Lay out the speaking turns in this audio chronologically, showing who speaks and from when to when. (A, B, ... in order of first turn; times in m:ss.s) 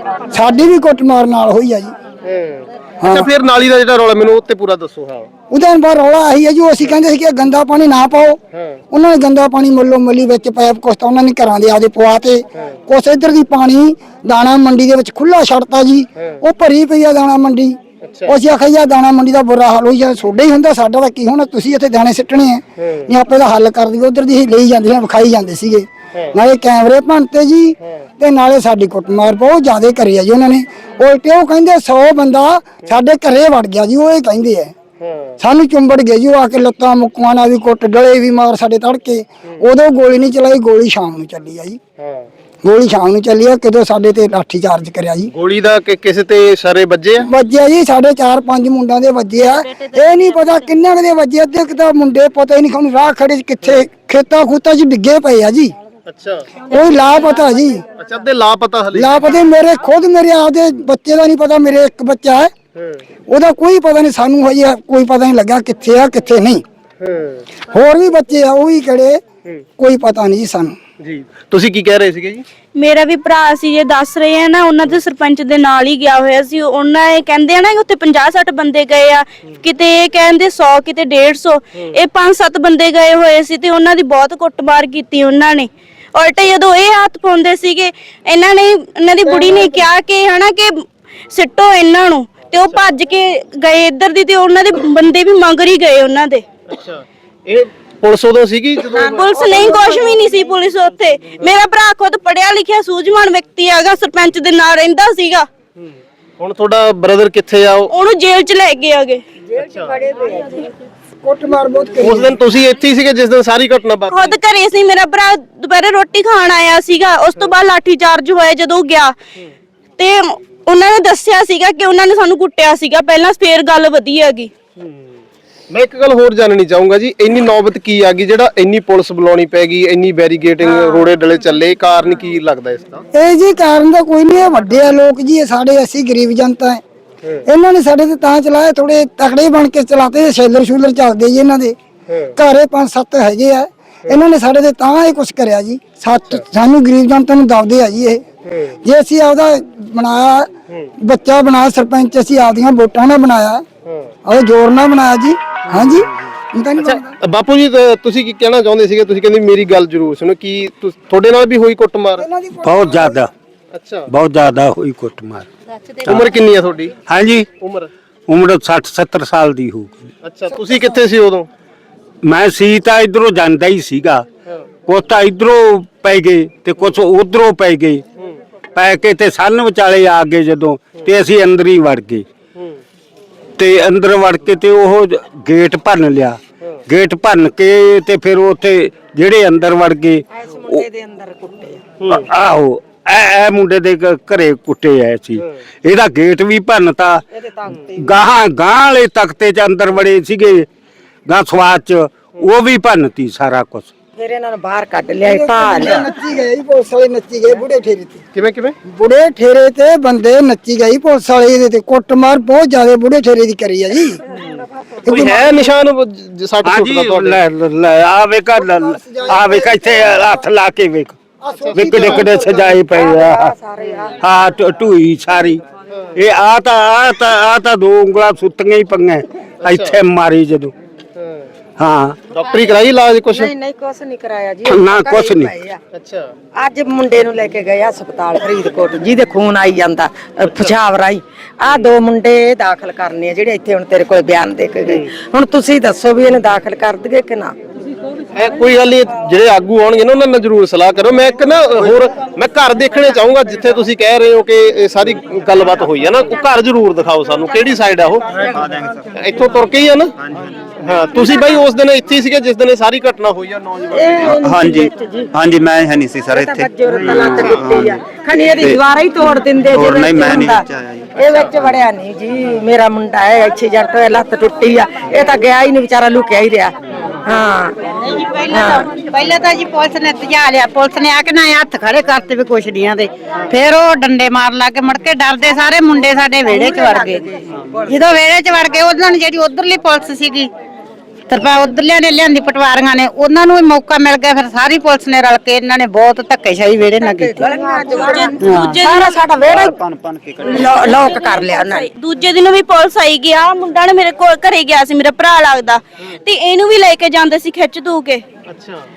0:00.3-0:02.0 A
0:02.2-0:05.3 B
0:03.0-0:03.3 A
0:05.5-0:08.4 A
0:08.9-0:34.7 A
0:18.0-0:18.3 B
0:22.8-0:23.1 B
0:35.0-0:35.4 B
0:35.4-0:41.8 A
0:42.0-0:42.3 B
0:42.6-0:45.3 A
0:45.3-0:47.3 B
0:47.3-0:55.8 A
0:56.1-0:56.5 B
0:56.7-0:57.8 A
0:58.0-0:59.3 B
0:58.9-1:02.5 A
1:02.8-1:03.0 B
1:03.3-1:06.6 A
1:07.0-1:07.4 B
1:07.7-1:09.2 A
1:09.8-1:10.8 A
1:11.0-1:12.5 B
1:12.8-1:36.4 C
1:36.7-1:39.5 B
1:39.1-1:45.5 C
1:45.8-1:47.9 B
1:47.9-1:49.2 C
1:49.6-1:49.9 B
1:50.0-1:50.6 D
1:51.2-1:52.3 A
1:52.0-1:54.4 B
1:54.1-1:59.2 C
2:00.0-2:04.5 C
2:05.7-2:13.0 B
2:13.1-2:16.8 A
2:17.5-2:21.8 A
2:22.4-2:28.2 A
2:28.5-2:28.8 B
2:28.8-2:33.6 A
2:33.9-2:34.1 B
2:34.3-2:37.1 A
2:35.7-2:36.3 B
2:36.8-2:42.2 B
2:42.2-2:43.2 A
2:42.6-2:43.3 E
2:43.7-2:44.1 B
2:44.1-2:45.5 E
2:46.0-2:47.0 B
2:47.1-2:47.5 E
2:47.6-2:47.9 B
2:48.3-2:49.9 E
2:50.2-2:51.5 B
2:52.2-2:54.2 E
2:54.9-2:58.0 E
2:58.8-3:02.2 E
3:03.6-3:10.9 E
3:10.3-3:11.9 D
3:12.0-3:12.3 B
3:12.1-3:20.7 E
3:17.3-3:18.1 D
3:21.3-3:23.9 E
3:24.2-3:26.1 D
3:25.3-3:28.2 A
3:28.3-3:28.8 B
3:28.9-3:34.2 A
3:35.0-3:35.6 A
3:35.0-3:37.4 B
3:36.6-3:41.2 E
3:38.6-3:40.4 A
3:41.4-3:42.8 A
3:41.7-3:42.3 B
3:41.8-3:43.5 E
3:42.5-3:44.2 D
3:44.2-3:45.6 E
3:46.2-3:50.7 E
3:49.6-3:49.9 B
3:51.2-3:51.5 B
3:51.8-3:52.2 E
3:52.3-3:53.5 B
3:53.3-3:55.8 D
3:54.7-3:55.5 E
3:55.9-3:56.3 B
3:56.6-4:07.5 D
4:00.4-4:00.8 B
4:01.7-4:01.9 B
4:08.3-4:18.4 B
4:19.1-4:20.1 B
4:20.8-4:24.2 B
4:23.9-4:25.3 D
4:24.2-4:28.1 F
4:26.3-4:30.6 D
4:29.7-4:31.0 F
4:31.2-4:37.8 D
4:38.4-4:39.0 D
4:39.3-4:42.0 G
4:42.7-4:43.0 G
4:44.8-4:45.2 G
4:46.9-4:47.2 D
4:48.4-4:48.8 G
4:57.0-4:59.8 D
4:57.9-4:59.2 C
4:59.5-5:00.9 F
5:00.4-5:01.9 D
5:01.8-5:08.2 C
5:08.5-5:08.9 B